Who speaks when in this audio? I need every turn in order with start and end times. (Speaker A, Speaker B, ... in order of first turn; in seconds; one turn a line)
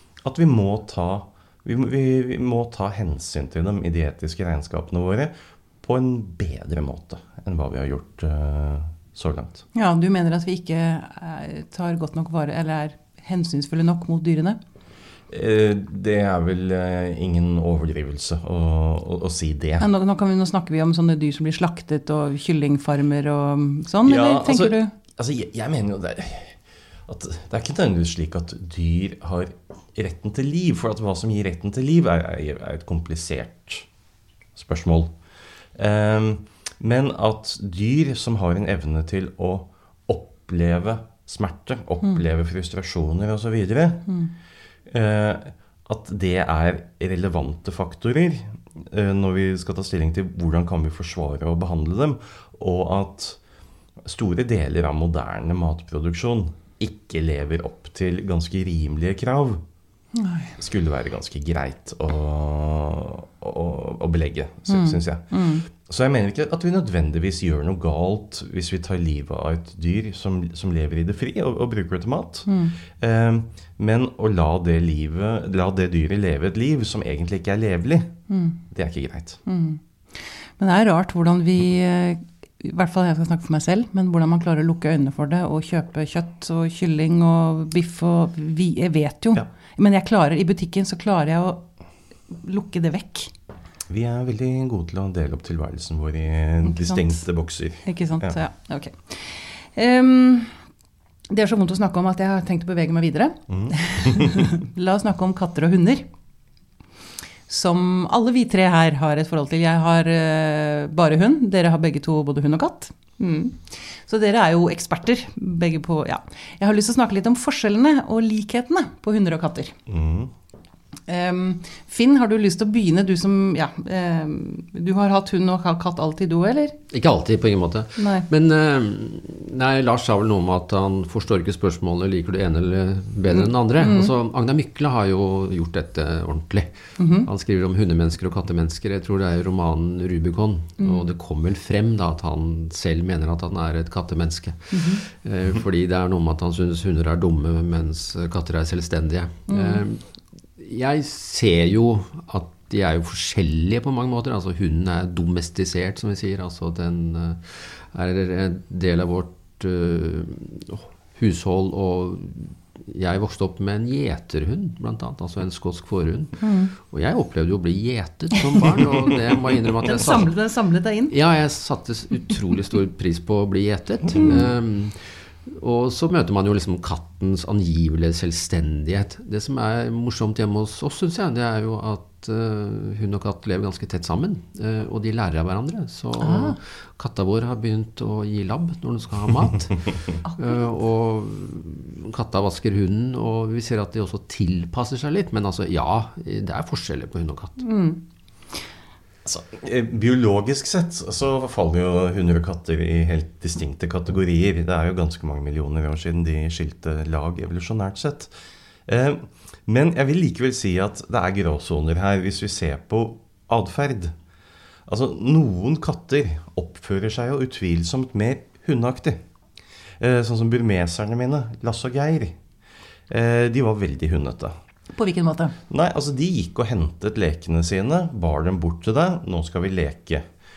Speaker A: 0.2-9.6
Speaker B: 9.8-14.6
Speaker A: 15.3-19.9
Speaker B: 19.8-24.9
Speaker A: 24.1-33.9
Speaker A: 34.6-35.1
Speaker A: 35.8-44.1
Speaker A: 44.9-53.4
Speaker A: 54.0-59.6
Speaker B: 60.1-60.6
Speaker A: 60.6-65.2
Speaker B: 64.7-65.7
Speaker A: 65.8-78.2
Speaker B: 72.5-72.8
Speaker B: 78.3-78.6
Speaker A: 78.7-79.4
Speaker B: 79.5-91.7
Speaker B: 92.3-93.3
Speaker A: 93.9-98.4
Speaker B: 96.7-97.2
Speaker B: 97.8-100.6
Speaker B: 101.3-106.1
Speaker A: 103.5-104.5
Speaker B: 107.5-119.8
Speaker A: 119.9-120.3
Speaker B: 121.1-126.8
Speaker C: 126.9-150.0
Speaker B: 128.0-128.3
Speaker B: 133.3-134.1
Speaker B: 137.0-137.3
Speaker B: 140.8-141.1
Speaker B: 144.7-145.0
Speaker B: 149.5-149.8
Speaker C: 150.6-170.3
Speaker B: 166.4-166.7
Speaker B: 169.8-171.2
Speaker C: 171.1-197.7
Speaker B: 186.2-186.6
Speaker B: 197.6-198.0
Speaker A: 199.2-208.3
Speaker A: 208.9-214.1
Speaker A: 214.9-219.2
Speaker A: 220.0-222.4
Speaker A: 223.1-224.5
Speaker B: 224.9-225.6
Speaker A: 225.7-230.2